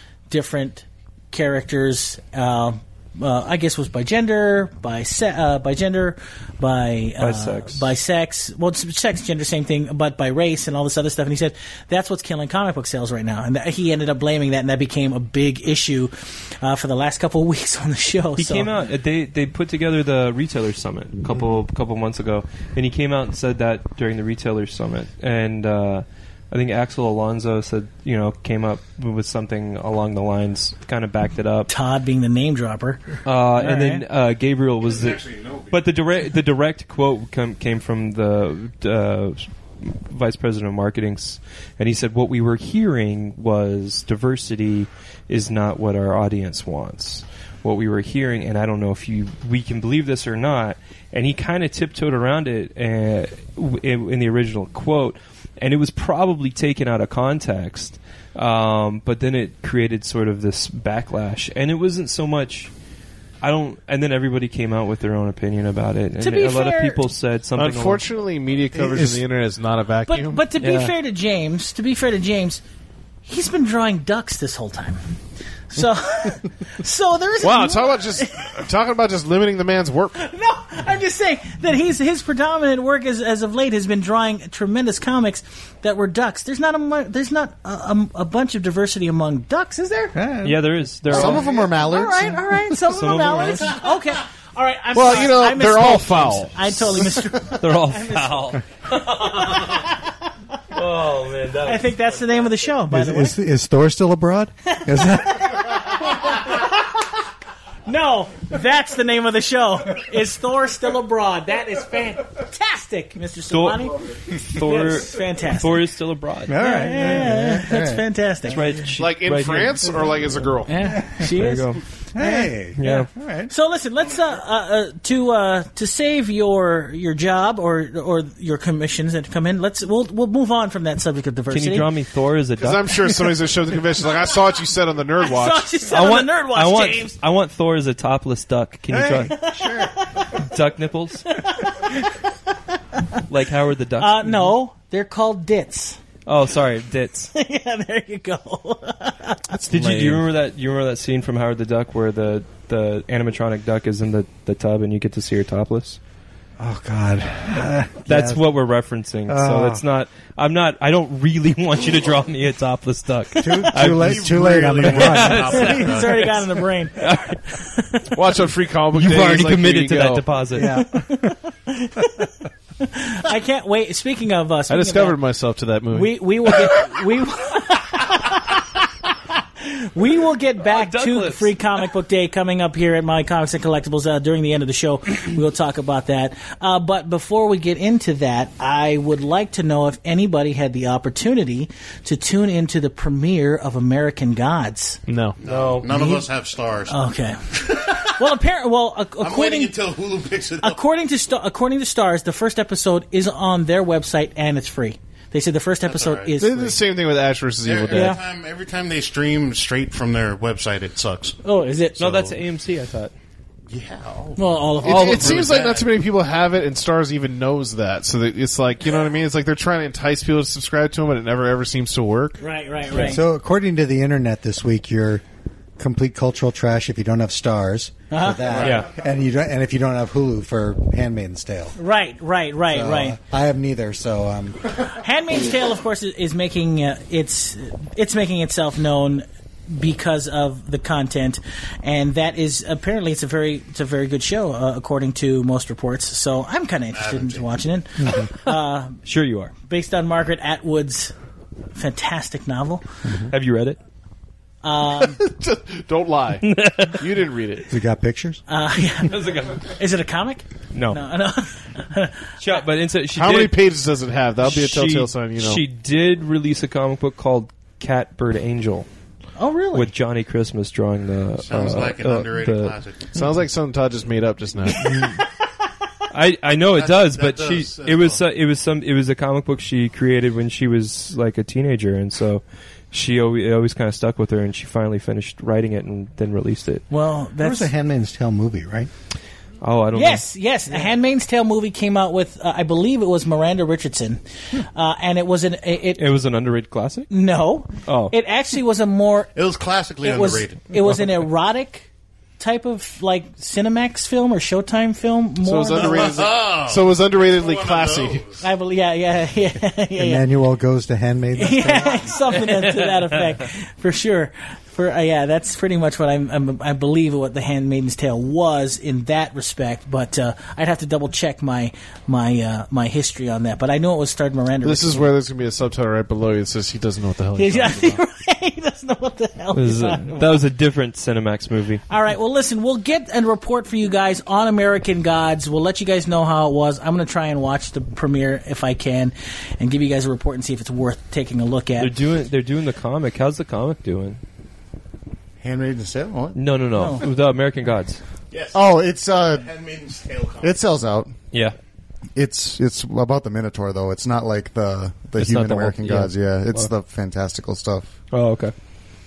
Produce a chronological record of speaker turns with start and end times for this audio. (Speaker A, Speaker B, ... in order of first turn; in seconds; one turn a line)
Speaker A: 0.3-18.7
Speaker B: 7.2-7.9
Speaker B: 18.4-31.7
Speaker A: 31.7-34.0
Speaker B: 33.2-62.7
Speaker C: 34.8-35.8
Speaker B: 63.4-68.0
Speaker A: 66.2-67.0
Speaker D: 67.6-70.4
Speaker E: 68.8-69.1
Speaker A: 70.1-72.6
Speaker B: 70.6-70.9
Speaker A: 73.2-75.0
Speaker A: 75.7-78.5
Speaker D: 77.4-80.2
Speaker A: 80.2-90.2
Speaker E: 90.1-90.7
Speaker B: 90.4-91.5
Speaker F: 91.1-92.4
Speaker A: 91.1-98.6
Speaker B: 92.8-93.8
Speaker D: 94.9-97.1
Speaker B: 97.4-99.9
Speaker A: 99.2-100.2
Speaker B: 100.7-102.1
Speaker A: 101.7-103.4
Speaker E: 102.9-105.7
Speaker A: 104.7-107.0
Speaker A: 107.9-115.8
Speaker B: 113.5-116.8
Speaker E: 116.5-118.0
Speaker A: 116.6-118.8
Speaker B: 118.5-119.9
Speaker D: 119.0-120.8
Speaker A: 120.7-131.9
Speaker E: 120.9-121.2
Speaker B: 121.2-121.8
Speaker E: 122.2-123.5
Speaker B: 122.8-123.1
Speaker B: 131.5-133.2
Speaker D: 132.6-135.7
Speaker A: 135.2-137.2
Speaker B: 135.9-139.5
Speaker E: 138.9-139.9
Speaker A: 139.3-140.4
Speaker B: 140.3-141.4
Speaker A: 141.3-142.2
Speaker B: 143.3-144.5
Speaker A: 144.0-146.0
Speaker B: 146.3-147.3
Speaker A: 147.3-149.5
Speaker D: 149.5-150.2
Speaker B: 149.7-156.0
Speaker E: 156.6-158.4
Speaker B: 158.1-166.4
Speaker E: 159.3-159.8
Speaker E: 163.4-165.6
Speaker C: 163.7-166.4
Speaker A: 165.5-168.1
Speaker B: 167.0-167.4
Speaker D: 168.1-170.3
Speaker B: 168.9-170.8
Speaker E: 170.5-171.3
Speaker A: 170.6-175.2
Speaker D: 174.7-176.2
Speaker A: 175.9-178.8
Speaker A: 179.6-195.0
Speaker B: 180.7-181.6
Speaker D: 195.1-195.4
Speaker C: 195.4-197.0
Speaker B: 195.4-195.9
Speaker A: 195.9-196.3
Speaker A: 196.9-199.8
Speaker C: 197.6-198.2
Speaker C: 199.2-200.8
Speaker A: 200.6-206.8
Speaker C: 205.9-206.3
Speaker D: 206.4-208.2
Speaker C: 207.7-211.4
Speaker A: 207.9-208.2
Speaker A: 211.4-212.2
Speaker C: 212.0-212.3
Speaker B: 212.0-213.1
Speaker C: 213.7-215.8
Speaker A: 214.4-215.5
Speaker D: 214.8-222.4
Speaker A: 222.4-223.2
Speaker E: 222.9-225.2
Speaker E: 225.8-231.8
Speaker A: 228.1-228.7
Speaker B: 228.6-228.9
Speaker A: 231.8-233.2
Speaker E: 232.7-234.7
Speaker A: 234.8-249.0
Speaker C: 246.9-247.5
Speaker E: 248.0-248.3
Speaker B: 249.0-249.5
Speaker A: 249.7-251.1
Speaker A: 251.8-252.8
Speaker E: 253.1-253.3
Speaker B: 253.3-253.8
Speaker A: 254.6-255.2
Speaker D: 254.9-257.7
Speaker B: 256.4-257.1
Speaker E: 257.7-258.4
Speaker A: 258.5-262.4
Speaker B: 259.0-259.7
Speaker B: 260.7-261.0
Speaker B: 262.4-263.6
Speaker D: 263.1-265.6
Speaker B: 264.4-268.9
Speaker A: 269.4-269.9
Speaker B: 269.7-272.8
Speaker C: 271.4-273.1
Speaker D: 273.1-274.9
Speaker B: 274.8-275.2
Speaker B: 276.1-286.8
Speaker C: 276.7-278.2
Speaker A: 286.9-287.7
Speaker E: 287.4-288.9
Speaker B: 289.6-290.3
Speaker A: 289.9-296.1
Speaker B: 296.0-297.1
Speaker A: 297.1-299.3
Speaker B: 297.9-298.1
Speaker C: 299.4-300.7
Speaker A: 300.0-301.9
Speaker A: 302.4-306.2
Speaker D: 305.4-308.2
Speaker C: 305.7-308.4
Speaker A: 308.4-310.2
Speaker E: 310.0-312.1
Speaker A: 311.4-325.1
Speaker B: 312.3-313.1
Speaker D: 324.6-328.0
Speaker A: 327.4-330.4
Speaker B: 329.5-331.8
Speaker A: 331.9-341.9
Speaker B: 341.8-344.2
Speaker F: 345.4-346.4
Speaker B: 346.4-348.0
Speaker A: 346.8-347.1
Speaker C: 348.3-348.6
Speaker F: 348.5-349.5
Speaker C: 349.4-350.6
Speaker F: 350.4-351.1
Speaker F: 352.2-357.9
Speaker B: 355.2-356.7
Speaker B: 358.1-358.5